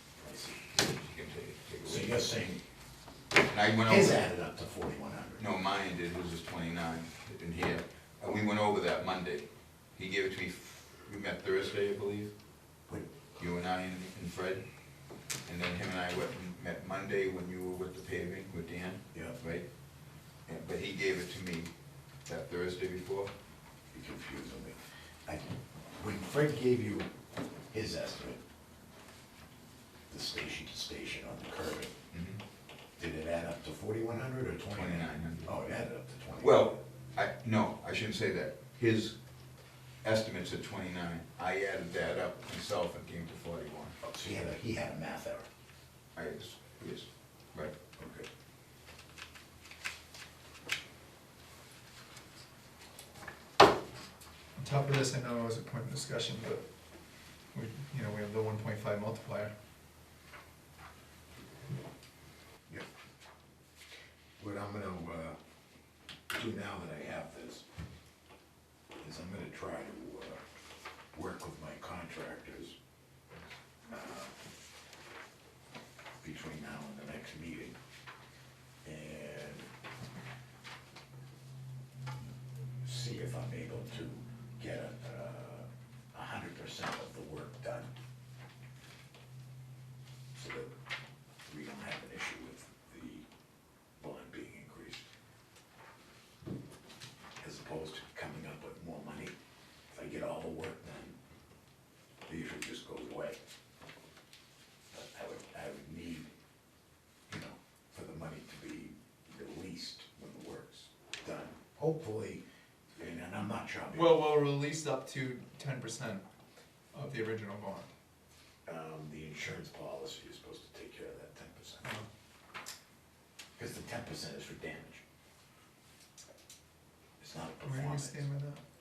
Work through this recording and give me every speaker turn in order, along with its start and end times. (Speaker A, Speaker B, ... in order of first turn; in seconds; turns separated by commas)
Speaker A: 0.2-0.7, Speaker B: 0.7-2.3, Speaker A: 1.8-2.6, Speaker B: 3.4-4.2, Speaker A: 3.9-5.4, Speaker B: 5.4-12.3, Speaker B: 13.4-14.7, Speaker B: 15.5-19.7, Speaker B: 20.5-21.7, Speaker B: 22.3-23.3, Speaker A: 23.9-27.1, Speaker A: 27.7-28.4, Speaker A: 30.1-31.9, Speaker B: 32.1-32.4, Speaker A: 33.0-36.8, Speaker B: 34.7-35.5, Speaker B: 36.4-39.2, Speaker B: 40.0-44.0, Speaker A: 44.0-45.5, Speaker B: 46.1-47.7, Speaker A: 48.0-48.3, Speaker C: 54.6-56.6, Speaker C: 57.5-59.5, Speaker A: 64.4-65.4, Speaker A: 66.3-67.7, Speaker A: 69.0-70.4, Speaker A: 71.1-72.8, Speaker A: 73.9-74.4, Speaker A: 76.2-77.8, Speaker A: 78.8-79.7, Speaker A: 82.8-87.9, Speaker A: 90.3-90.7, Speaker A: 91.5-93.3, Speaker A: 94.0-95.1, Speaker A: 97.4-99.3, Speaker A: 99.9-101.2, Speaker A: 102.3-103.4, Speaker A: 104.9-106.3, Speaker A: 107.3-112.4, Speaker A: 113.0-114.3, Speaker C: 113.9-116.2, Speaker C: 116.9-117.9, Speaker A: 118.7-122.0, Speaker A: 123.6-125.0, Speaker A: 127.2-128.2, Speaker C: 127.6-128.6